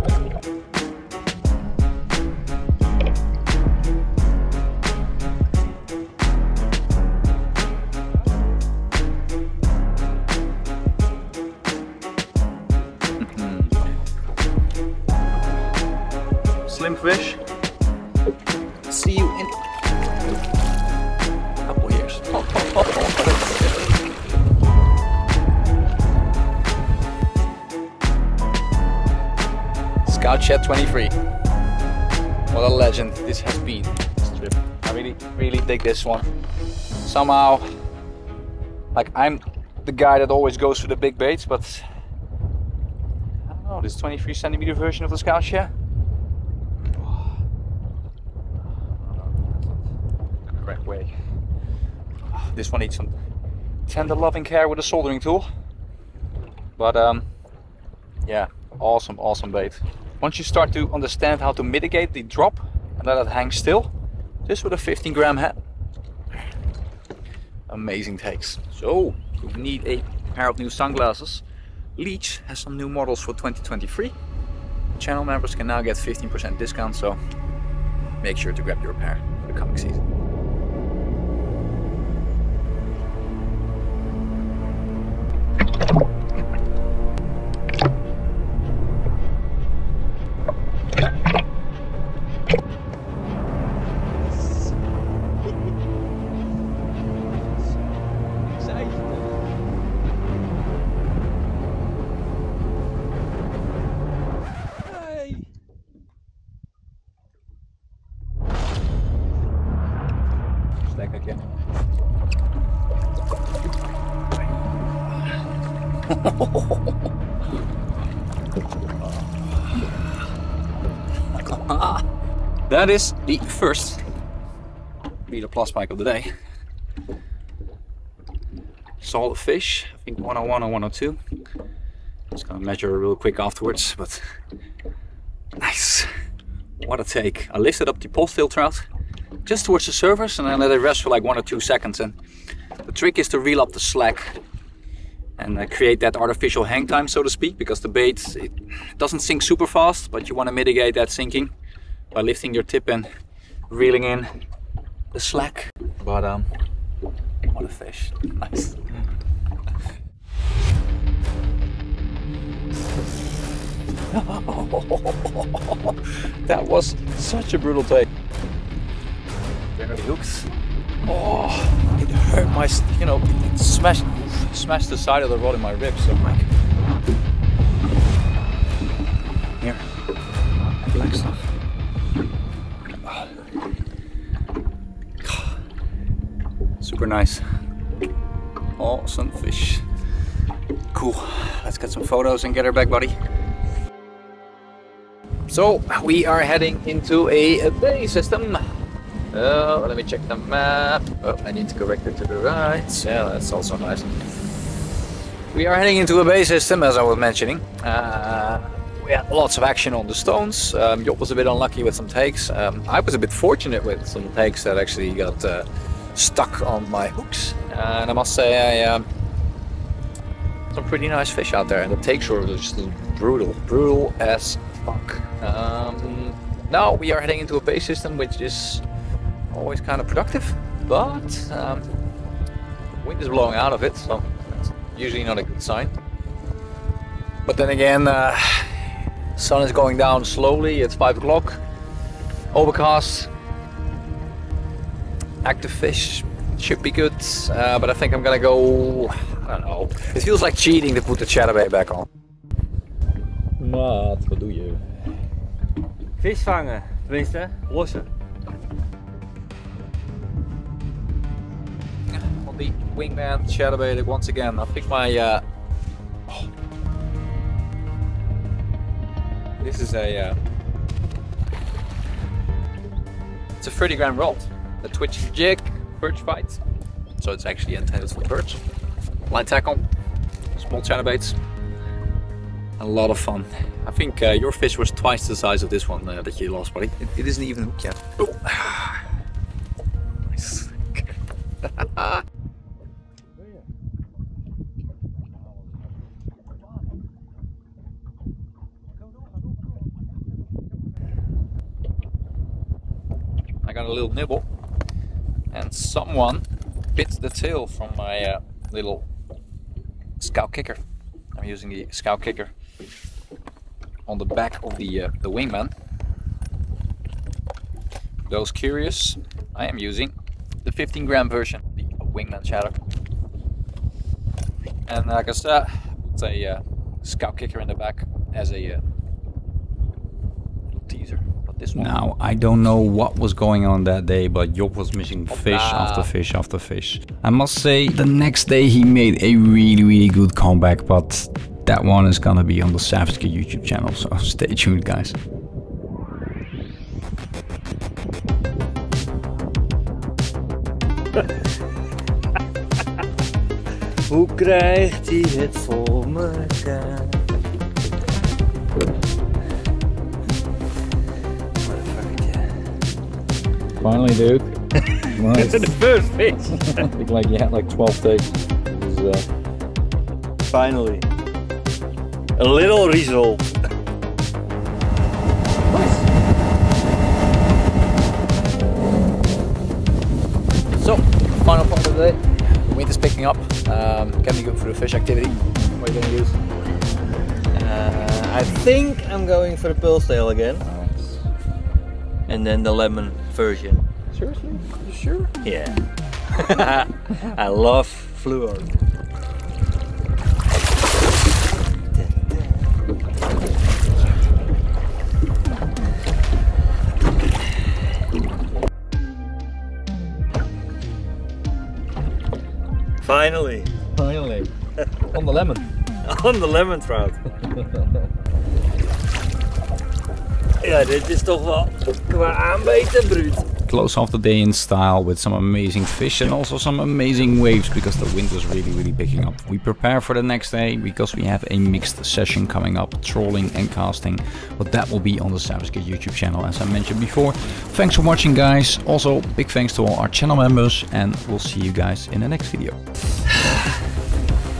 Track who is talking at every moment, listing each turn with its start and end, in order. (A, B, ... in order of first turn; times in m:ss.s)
0:13.2-0:13.8 A
0:16.7-0:17.4 A
0:18.8-0:19.5 A
0:21.6-0:24.0 A
0:30.0-0:31.1 A
0:32.5-0:36.3 A
0:37.0-0:37.6 A
0:38.9-0:41.8 A
0:43.5-0:45.7 A
0:49.0-0:49.6 A
0:50.5-0:51.1 A
0:52.3-0:53.1 A
0:53.9-0:55.4 A
0:56.8-0:57.3 A
0:58.2-1:03.9 A
1:04.4-1:05.6 A
1:07.7-1:11.4 A
1:12.0-1:14.1 A
1:15.0-1:17.2 A
1:18.2-1:20.0 A
1:38.6-1:39.2 A
1:44.9-1:45.4 A
1:50.8-1:51.4 A
1:56.1-1:56.9 A
2:01.3-2:02.0 A
2:02.7-2:04.0 A
2:05.3-2:06.3 A
2:09.0-2:11.2 A
2:12.3-2:14.2 A
2:15.6-2:16.1 A
2:16.8-2:18.8 A
2:19.4-2:22.1 A
2:22.8-2:24.4 A
2:25.4-2:31.5 A
2:32.1-2:33.1 A
2:33.7-2:34.3 A
2:35.1-2:36.5 A
2:37.5-2:39.0 A
2:44.1-2:48.1 A
2:49.8-2:50.5 A
2:51.0-2:56.5 A
3:00.8-3:01.4 A
3:03.0-3:03.3 A
3:05.2-3:05.5 A
3:06.8-3:07.4 A
3:08.8-3:09.8 A
3:10.9-3:13.1 A
3:15.5-3:18.6 A
3:19.3-3:24.1 A
3:25.5-3:39.0 A
3:40.7-3:48.8 A
3:49.5-3:51.8 A
3:53.0-3:55.9 A
3:57.4-4:01.6 A
4:02.5-4:03.3 A
4:05.4-4:12.0 A
4:13.6-4:14.8 A
4:16.2-4:18.1 B
4:22.1-4:25.4 A
4:29.6-4:30.4 A
4:33.6-4:36.6 A
4:37.2-4:38.6 A
4:39.3-4:39.8 A
4:40.5-4:41.4 A
4:42.8-4:49.0 A
4:50.3-4:51.1 A
4:51.6-4:52.2 A
5:03.6-5:04.4 A
5:05.5-5:09.0 A
5:10.2-5:10.8 A
5:11.3-5:12.5 A
5:14.0-5:15.7 A
5:18.2-5:22.8 A
5:24.9-5:28.8 A
5:30.7-5:32.0 A
5:31.8-5:45.2 C
5:35.3-5:36.1 A
5:54.1-5:57.3 B
6:01.6-6:02.5 B
6:03.8-6:05.8 A
6:05.2-6:06.8 B
6:06.5-6:09.2 A
6:10.5-6:11.0 B
6:12.4-6:13.4 B
6:20.7-6:26.4 A
6:27.5-6:30.6 B
6:30.6-6:31.2 A
6:32.3-6:33.8 B
6:34.1-6:35.3 A
6:35.4-6:38.7 B
6:42.0-6:42.2 B
6:53.0-6:53.7 B
6:54.0-6:54.5 A
6:55.1-6:55.6 A
6:56.0-6:57.9 B
7:00.6-7:03.5 B
7:03.6-7:22.6 C
7:23.3-7:23.7 B